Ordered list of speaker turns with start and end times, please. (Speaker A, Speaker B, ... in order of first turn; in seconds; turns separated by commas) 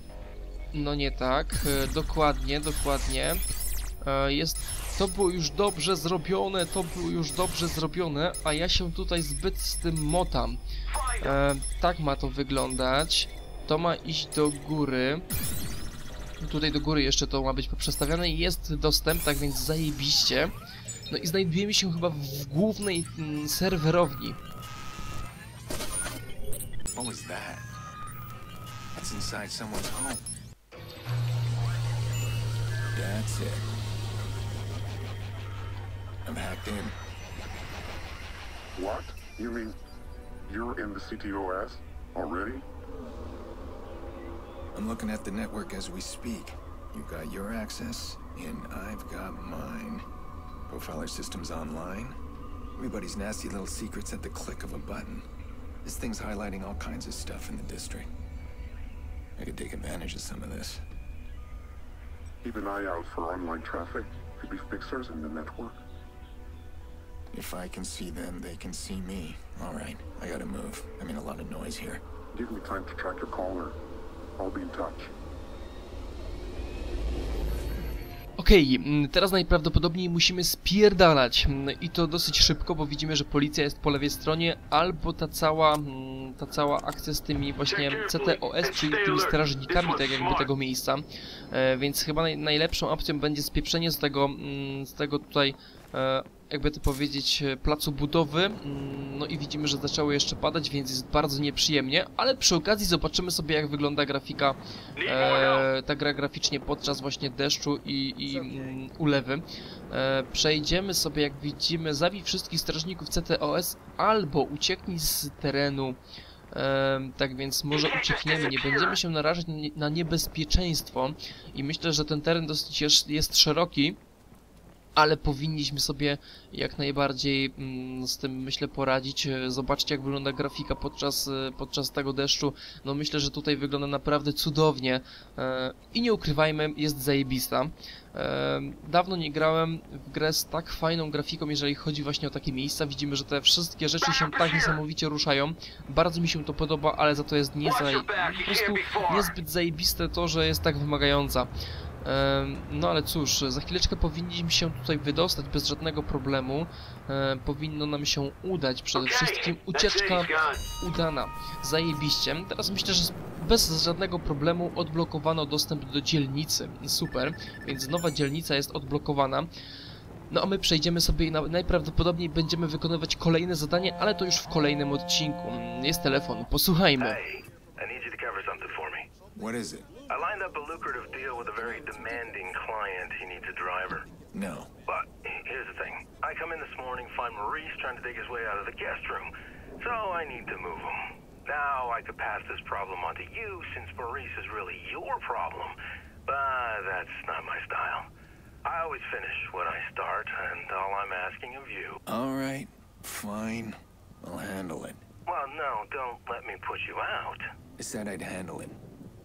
Speaker A: 0.7-3.4, Speaker A: 4.0-10.6, Speaker A: 11.2-15.2, Speaker A: 16.4-20.5, Speaker A: 21.1-24.4, Speaker B: 26.9-27.7, Speaker B: 28.9-30.3, Speaker B: 33.0-33.7, Speaker B: 36.2-37.0, Speaker C: 38.8-39.8, Speaker C: 40.5-42.6, Speaker B: 44.8-50.0, Speaker B: 50.7-52.1, Speaker B: 52.8-55.3, Speaker B: 55.8-58.1, Speaker B: 59.4-60.8, Speaker C: 62.4-65.8, Speaker B: 67.3-72.0, Speaker C: 72.3-73.8, Speaker C: 74.4-75.1, Speaker A: 78.4-116.0, Speaker A: 116.5-124.0, Speaker A: 125.0-151.5, Speaker A: 152.0-169.5, Speaker A: 170.3-177.2, Speaker D: 177.0-179.1, Speaker B: 179.3-179.9, Speaker D: 180.1-184.1, Speaker B: 184.3-184.7, Speaker D: 184.9-198.1, Speaker D: 198.7-202.0, Speaker B: 202.1-205.0, Speaker D: 205.3-207.4, Speaker B: 207.8-208.8